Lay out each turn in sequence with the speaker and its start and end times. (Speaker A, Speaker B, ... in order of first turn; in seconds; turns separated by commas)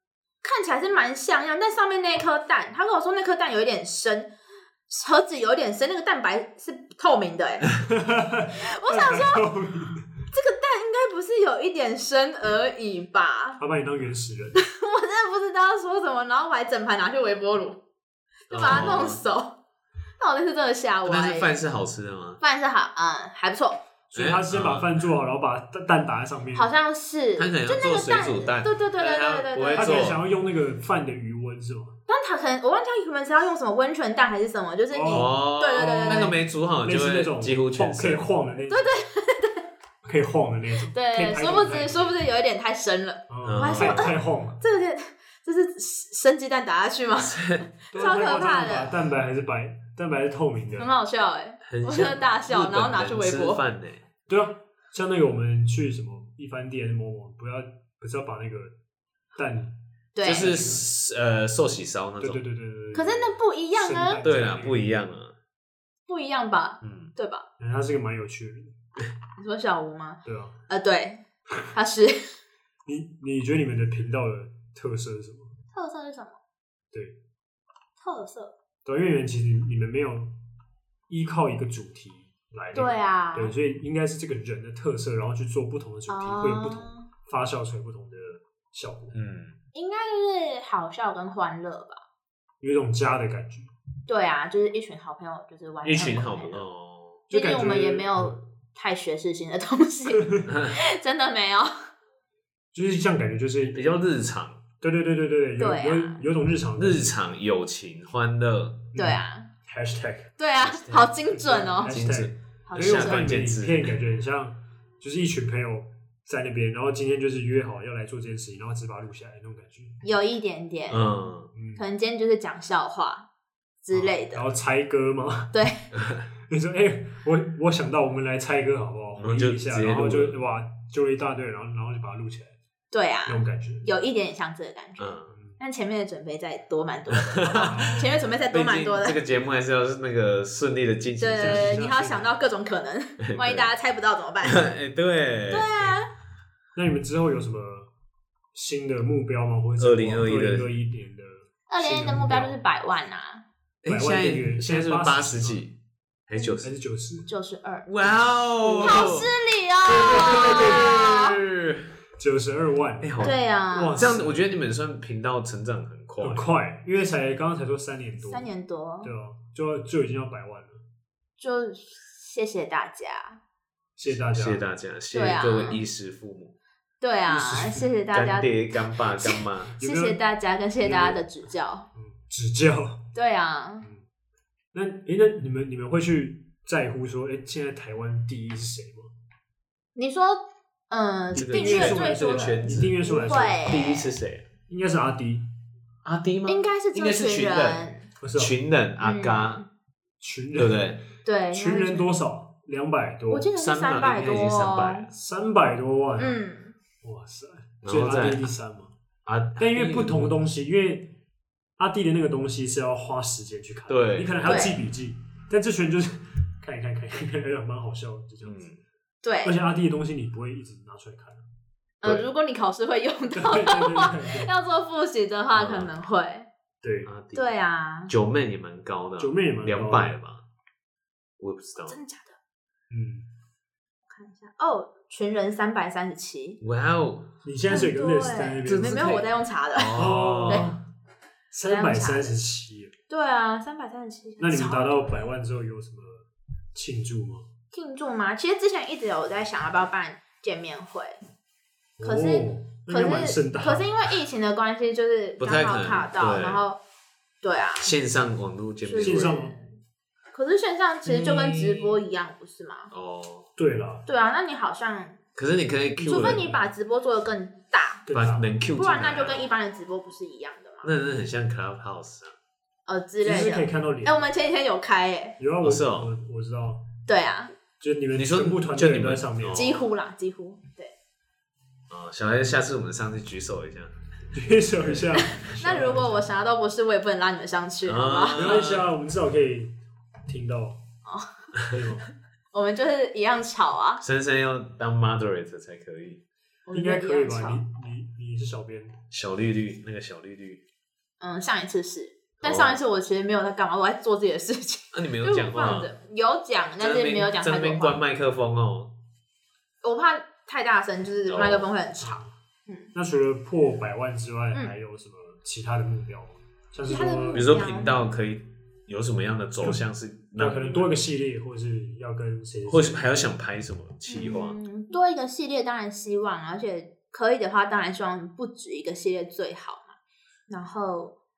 Speaker A: 0.4-4.3, Speaker A: 4.9-7.7, Speaker B: 7.7-10.2, Speaker A: 8.6-9.4, Speaker A: 10.3-13.6, Speaker B: 13.6-14.6, Speaker A: 14.6-17.8, Speaker A: 18.5-19.6, Speaker C: 18.5-19.2, Speaker A: 20.2-21.5, Speaker C: 21.0-22.4, Speaker A: 22.4-23.8, Speaker B: 24.1-26.7, Speaker C: 24.1-25.1, Speaker A: 26.5-30.1, Speaker C: 27.4-30.2, Speaker B: 29.7-31.9, Speaker A: 32.1-36.3, Speaker B: 34.9-38.9, Speaker C: 35.1-38.2, Speaker A: 38.7-39.6, Speaker B: 40.0-42.1, Speaker A: 40.9-48.9, Speaker B: 43.3-44.6, Speaker C: 43.4-44.1, Speaker C: 47.3-47.6, Speaker B: 47.9-50.9, Speaker A: 50.8-53.6, Speaker C: 51.6-54.0, Speaker B: 54.3-58.7, Speaker B: 59.3-60.9, Speaker A: 60.1-60.6, Speaker C: 60.2-62.4, Speaker B: 62.2-64.9, Speaker A: 62.9-64.2, Speaker C: 64.2-65.3, Speaker A: 66.1-67.4, Speaker C: 66.8-67.1, Speaker B: 67.6-68.8, Speaker A: 69.4-71.2, Speaker B: 70.2-70.5, Speaker A: 71.7-72.3, Speaker B: 72.8-75.5, Speaker A: 75.7-76.4, Speaker B: 76.9-77.2, Speaker A: 78.0-78.5, Speaker B: 78.8-80.3, Speaker B: 81.1-89.1, Speaker A: 82.7-83.5, Speaker A: 86.1-87.1, Speaker C: 89.1-89.6, Speaker A: 89.7-92.0, Speaker B: 92.6-93.7, Speaker A: 94.1-96.7, Speaker C: 95.8-97.2, Speaker B: 97.3-98.3, Speaker A: 97.3-101.9, Speaker B: 100.2-100.5, Speaker C: 100.5-100.8, Speaker B: 102.7-104.0, Speaker C: 103.7-104.6, Speaker B: 104.8-107.2, Speaker A: 105.6-106.2, Speaker C: 106.8-108.9, Speaker B: 108.9-110.3, Speaker A: 108.9-109.5, Speaker A: 110.4-112.0, Speaker C: 110.6-111.1, Speaker B: 111.3-120.0, Speaker C: 111.9-113.9, Speaker A: 112.7-113.2, Speaker A: 120.0-121.1, Speaker C: 120.9-121.5, Speaker B: 121.5-121.8, Speaker A: 121.8-123.2, Speaker A: 123.8-124.5, Speaker B: 123.9-125.5, Speaker A: 125.5-125.8, Speaker C: 125.9-126.2, Speaker B: 126.5-132.6, Speaker C: 129.2-130.4, Speaker A: 132.9-139.2, Speaker B: 133.2-133.8, Speaker C: 135.0-135.3, Speaker B: 135.3-135.6, Speaker C: 137.1-141.9, Speaker B: 137.6-138.2, Speaker A: 141.2-144.7, Speaker B: 141.4-142.3, Speaker C: 143.2-143.7, Speaker C: 144.4-145.7, Speaker A: 145.5-146.1, Speaker B: 146.7-147.9, Speaker B: 148.5-152.6, Speaker C: 149.8-150.7, Speaker A: 151.7-153.4, Speaker C: 153.8-155.8, Speaker B: 153.9-155.6, Speaker C: 156.3-156.7, Speaker B: 156.6-157.3, Speaker A: 157.3-157.9, Speaker C: 157.9-159.3, Speaker A: 158.6-161.4, Speaker C: 159.8-161.9, Speaker B: 159.9-161.0, Speaker B: 162.2-164.5, Speaker C: 163.0-166.5, Speaker A: 163.2-164.1, Speaker B: 166.2-168.4, Speaker A: 168.3-169.1, Speaker B: 169.0-170.8, Speaker A: 171.4-173.4, Speaker B: 174.0-174.6, Speaker C: 174.1-176.5, Speaker A: 175.1-175.8, Speaker A: 177.0-181.9, Speaker B: 177.3-177.9, Speaker C: 178.1-179.8, Speaker B: 179.8-180.2, Speaker B: 180.8-181.2, Speaker B: 181.9-183.1, Speaker A: 183.1-183.9, Speaker B: 184.7-189.1, Speaker A: 189.9-194.0, Speaker B: 191.3-193.7, Speaker C: 191.3-194.4, Speaker B: 194.7-195.5, Speaker C: 196.0-197.8, Speaker A: 196.5-198.0, Speaker B: 198.2-198.5, Speaker C: 198.3-199.6, Speaker A: 199.0-199.7, Speaker B: 200.2-201.0, Speaker C: 200.5-201.0, Speaker A: 201.2-202.1, Speaker B: 201.5-203.5, Speaker A: 203.3-205.1, Speaker C: 203.5-205.1, Speaker B: 205.1-206.4, Speaker A: 206.2-206.7, Speaker B: 207.0-208.9, Speaker C: 207.8-208.5, Speaker C: 209.2-210.4, Speaker B: 209.6-211.2, Speaker B: 211.8-218.6, Speaker C: 213.9-214.7, Speaker A: 214.4-214.8, Speaker C: 218.4-218.8, Speaker A: 219.2-219.6, Speaker B: 219.4-221.4, Speaker A: 222.0-226.5, Speaker B: 223.3-224.5, Speaker C: 225.5-225.9, Speaker B: 226.8-227.1, Speaker C: 227.1-227.5, Speaker A: 227.3-228.1, Speaker C: 228.1-230.4, Speaker B: 229.2-230.2, Speaker C: 231.4-232.0, Speaker A: 231.9-232.4, Speaker B: 232.9-233.2, Speaker A: 234.1-236.6, Speaker C: 236.6-237.3, Speaker B: 237.4-239.2, Speaker A: 237.7-240.7, Speaker C: 238.7-239.2, Speaker C: 239.7-240.8, Speaker B: 239.9-240.8, Speaker B: 241.5-242.9, Speaker A: 241.6-242.3, Speaker A: 243.1-245.1, Speaker B: 244.4-247.4, Speaker A: 247.7-251.2, Speaker B: 252.0-254.2, Speaker A: 252.0-256.8, Speaker C: 255.4-256.6, Speaker A: 257.4-257.9, Speaker C: 257.8-259.4, Speaker A: 258.8-259.6, Speaker B: 259.0-259.6, Speaker A: 260.3-262.9, Speaker C: 261.0-262.0, Speaker C: 262.9-263.5, Speaker B: 263.6-264.1, Speaker A: 264.1-265.2, Speaker C: 265.4-266.5, Speaker B: 266.0-266.7, Speaker A: 266.0-268.0, Speaker B: 268.1-268.5, Speaker C: 268.1-269.4, Speaker A: 268.8-270.9, Speaker C: 270.8-272.4, Speaker A: 272.9-275.4, Speaker B: 273.2-274.2, Speaker B: 275.4-276.9, Speaker C: 275.6-276.1, Speaker A: 277.1-277.5, Speaker B: 277.8-279.6, Speaker C: 278.1-279.9, Speaker A: 279.5-280.9, Speaker C: 281.9-283.9, Speaker B: 284.3-286.3, Speaker A: 285.1-288.6, Speaker C: 287.9-288.9, Speaker B: 288.3-290.8, Speaker A: 291.1-291.3, Speaker B: 291.7-292.1, Speaker A: 292.5-294.0, Speaker C: 294.0-296.2, Speaker A: 296.7-297.6, Speaker B: 296.7-299.0, Speaker C: 299.1-300.6, Speaker A: 301.2-308.0, Speaker C: 302.4-302.8, Speaker C: 304.9-305.9, Speaker C: 306.8-308.9, Speaker A: 309.8-312.9, Speaker C: 311.3-311.7, Speaker B: 312.0-312.3, Speaker B: 312.9-317.5, Speaker A: 316.8-318.0, Speaker C: 317.3-320.9, Speaker B: 320.4-323.1, Speaker C: 322.7-324.6, Speaker A: 324.1-329.9, Speaker A: 330.5-331.1